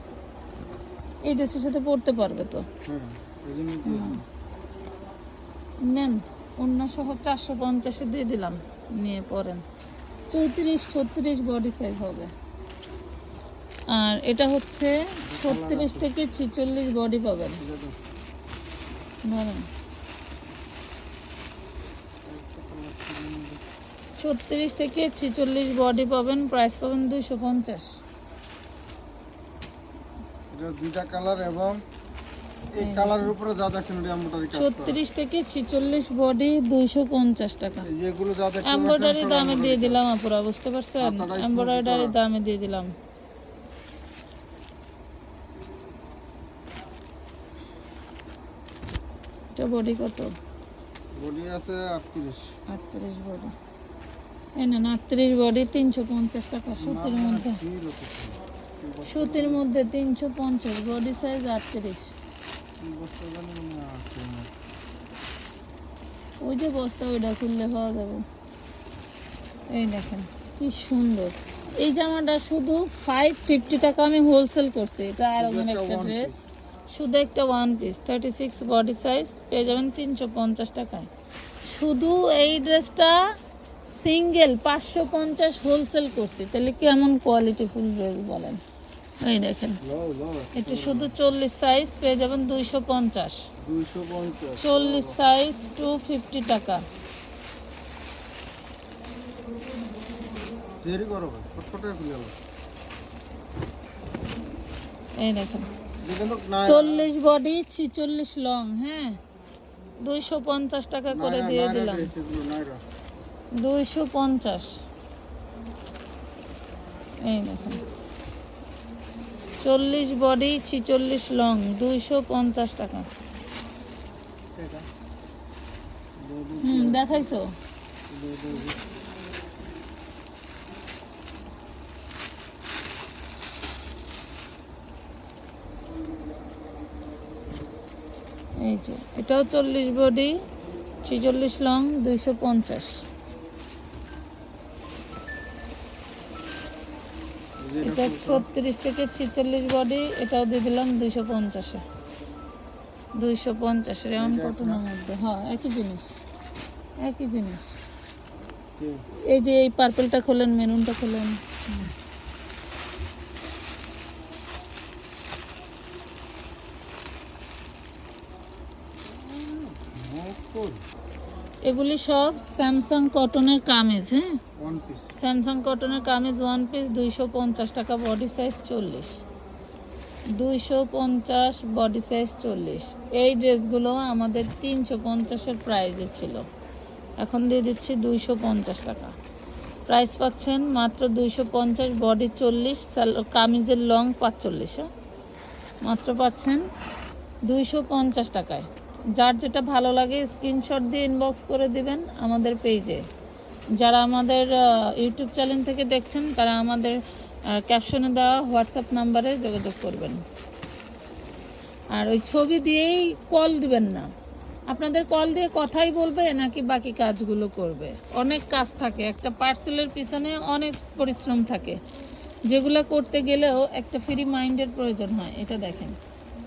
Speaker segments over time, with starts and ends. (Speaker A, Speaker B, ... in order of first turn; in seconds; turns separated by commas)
Speaker A: 1.2-2.6, Speaker B: 2.8-4.2, Speaker A: 3.9-4.2, Speaker A: 5.8-9.6, Speaker A: 10.3-12.3, Speaker A: 13.9-17.6, Speaker B: 15.2-16.1, Speaker B: 17.6-17.9, Speaker A: 19.2-19.7, Speaker B: 22.2-23.6, Speaker A: 24.2-28.0, Speaker B: 30.5-31.8, Speaker B: 32.7-35.0, Speaker A: 32.8-33.3, Speaker A: 34.5-37.9, Speaker B: 37.8-40.0, Speaker A: 38.6-42.9, Speaker B: 41.0-42.1, Speaker A: 49.5-50.3, Speaker B: 51.1-52.5, Speaker A: 52.7-53.5, Speaker A: 54.5-57.6, Speaker B: 56.8-59.6, Speaker A: 59.1-62.1, Speaker B: 62.8-64.5, Speaker A: 66.4-68.2, Speaker A: 69.7-76.3, Speaker B: 75.4-76.5, Speaker A: 76.9-81.1, Speaker A: 81.6-83.3, Speaker A: 83.9-88.6, Speaker A: 89.2-89.8, Speaker B: 89.8-91.3, Speaker A: 90.5-93.4, Speaker B: 93.6-95.2, Speaker A: 94.6-96.8, Speaker B: 100.8-102.3, Speaker A: 105.2-105.7, Speaker B: 106.0-107.1, Speaker A: 106.7-109.2, Speaker A: 110.0-112.1, Speaker B: 111.1-112.8, Speaker A: 113.5-114.8, Speaker A: 117.2-117.8, Speaker A: 119.6-123.2, Speaker B: 124.6-124.8, Speaker B: 126.2-127.1, Speaker A: 126.6-127.5, Speaker B: 128.1-128.8, Speaker A: 138.6-140.3, Speaker A: 141.0-143.0, Speaker B: 147.6-148.5, Speaker A: 147.8-151.8, Speaker A: 153.2-156.2, Speaker B: 154.2-154.8, Speaker A: 157.0-157.8, Speaker B: 158.8-159.0, Speaker A: 159.3-161.9, Speaker B: 169.2-170.8, Speaker A: 171.6-174.4, Speaker B: 174.6-175.1, Speaker A: 175.2-179.2, Speaker A: 180.3-186.4, Speaker A: 187.2-189.1, Speaker A: 189.9-194.9, Speaker A: 195.8-196.6, Speaker A: 197.4-203.0, Speaker A: 203.8-210.2, Speaker A: 211.9-214.1, Speaker A: 214.7-221.8, Speaker A: 222.5-225.9